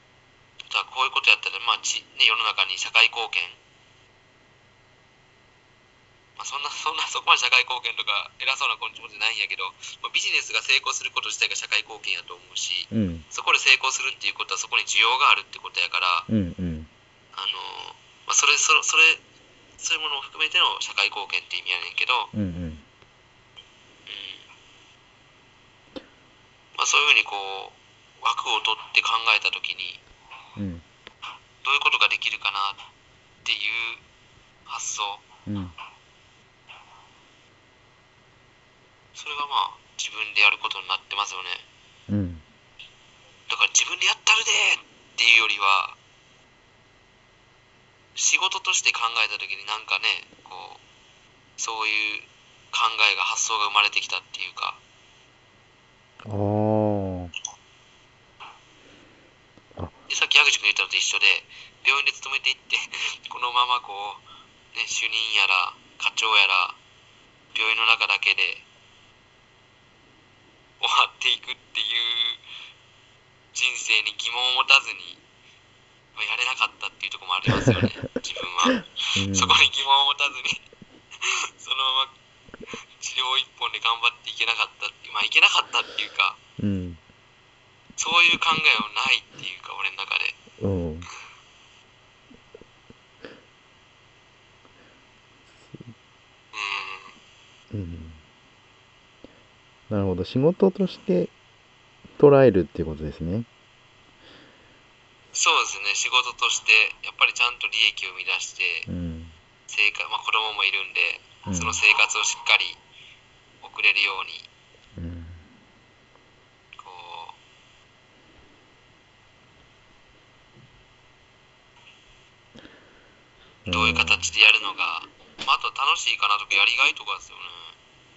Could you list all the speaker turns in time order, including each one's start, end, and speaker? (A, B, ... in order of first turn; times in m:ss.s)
0:00.6-0:03.6 A
0:06.4-0:16.3 A
0:12.9-0:13.2 B
0:16.3-0:16.9 B
0:17.4-0:19.2 A
0:19.8-0:22.3 A
0:22.3-0:22.8 B
0:24.1-0:24.4 A
0:26.8-0:30.0 A
0:30.6-0:30.8 B
0:31.6-0:32.8 A
0:33.4-0:34.0 A
0:34.7-0:35.2 A
0:35.5-0:35.7 B
0:39.1-0:41.6 A
0:42.1-0:42.4 B
0:43.5-0:46.0 A
0:48.2-0:50.8 A
0:51.6-0:54.8 A
0:56.2-0:57.3 B
1:00.1-1:04.2 A
1:04.7-1:06.8 A
1:07.5-1:08.6 A
1:10.8-1:12.4 A
1:13.5-1:15.2 A
1:16.1-1:20.6 A
1:19.2-1:19.6 B
1:21.2-1:22.1 A
1:22.7-1:26.4 A
1:26.6-1:27.0 B
1:28.0-1:30.4 A
1:30.6-1:31.1 B
1:36.5-1:37.1 A
1:37.7-1:38.2 B
1:39.9-1:41.3 B
1:42.2-1:43.5 B
1:45.3-1:48.9 A
1:48.9-1:49.3 B
1:49.7-1:52.8 A
1:51.4-1:51.8 B
1:53.6-1:54.5 A
1:55.0-1:55.4 B
1:56.8-1:57.4 A
2:03.6-2:04.3 B
2:03.7-2:07.7 A